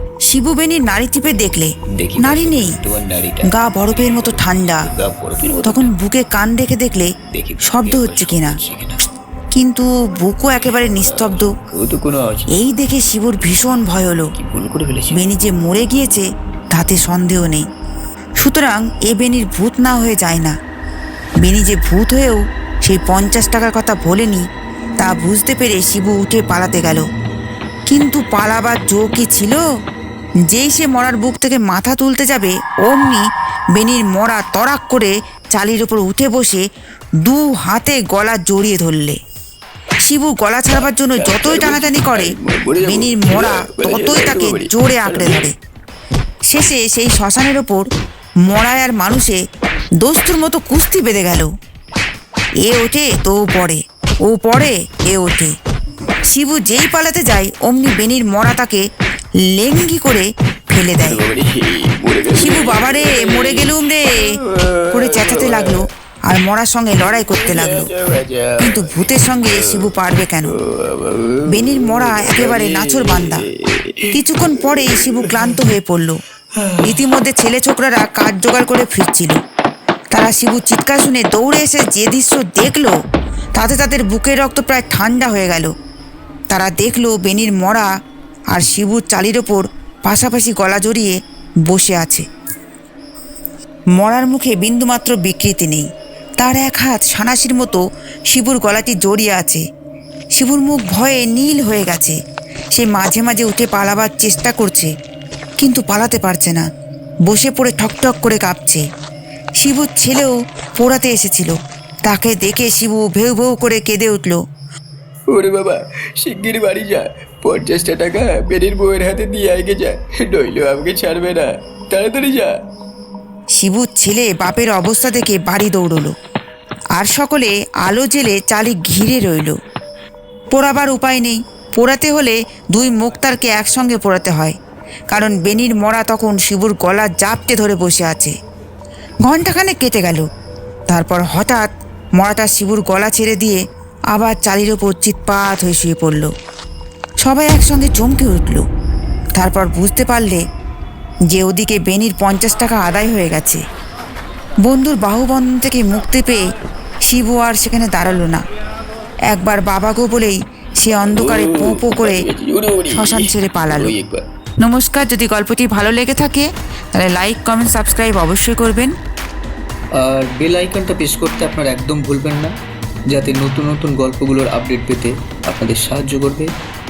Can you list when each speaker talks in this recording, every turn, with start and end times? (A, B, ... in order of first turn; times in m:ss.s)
0:00.3-0:02.8 A
0:02.0-0:05.9 B
0:03.5-0:04.8 A
0:05.6-0:07.1 A
0:07.3-0:09.1 B
0:07.7-0:08.6 A
0:09.6-0:11.5 A
0:11.0-0:12.5 B
0:12.6-0:14.2 A
0:14.4-0:15.2 B
0:15.1-0:17.7 A
0:18.4-0:20.5 A
0:21.4-0:24.4 A
0:25.0-0:27.0 A
0:27.9-0:29.6 A
0:30.5-0:33.2 A
0:33.8-0:36.6 A
0:37.2-0:39.2 A
0:40.1-0:42.3 A
0:40.7-0:45.5 B
0:42.8-0:45.5 A
0:46.5-0:47.8 A
0:48.5-0:49.4 A
0:50.0-0:51.5 A
0:52.6-0:55.5 A
0:56.3-0:58.8 A
0:59.5-1:01.2 A
1:01.0-1:05.8 B
1:02.4-1:04.3 A
1:04.9-1:07.9 A
1:07.0-1:09.9 B
1:08.6-1:10.6 A
1:10.6-1:15.6 B
1:11.5-1:13.4 A
1:14.1-1:16.2 A
1:16.8-1:19.4 A
1:20.1-1:22.9 A
1:23.6-1:25.7 A
1:26.5-1:27.9 A
1:28.6-1:31.1 A
1:31.7-1:32.2 A
1:34.0-1:35.9 A
1:36.4-1:39.6 A
1:40.4-1:42.2 A
1:42.8-1:44.9 A
1:45.6-1:46.6 A
1:47.3-1:48.8 A
1:49.6-1:51.6 A
1:52.1-1:54.4 A
1:55.3-2:02.5 B
2:03.6-2:06.1 A
2:07.0-2:09.5 A
2:10.6-2:14.6 A
2:15.1-2:18.3 A
2:19.2-2:20.2 A
2:20.9-2:23.6 A
2:24.1-2:26.3 A
2:27.2-2:28.6 A
2:29.4-2:30.4 A
2:31.3-2:33.6 A
2:34.7-2:36.4 A
2:37.1-2:38.4 A
2:39.3-2:42.2 A
2:41.1-2:44.2 B
2:42.9-2:43.9 A
2:44.6-2:48.9 A
2:50.0-2:52.5 C
2:53.1-2:56.5 C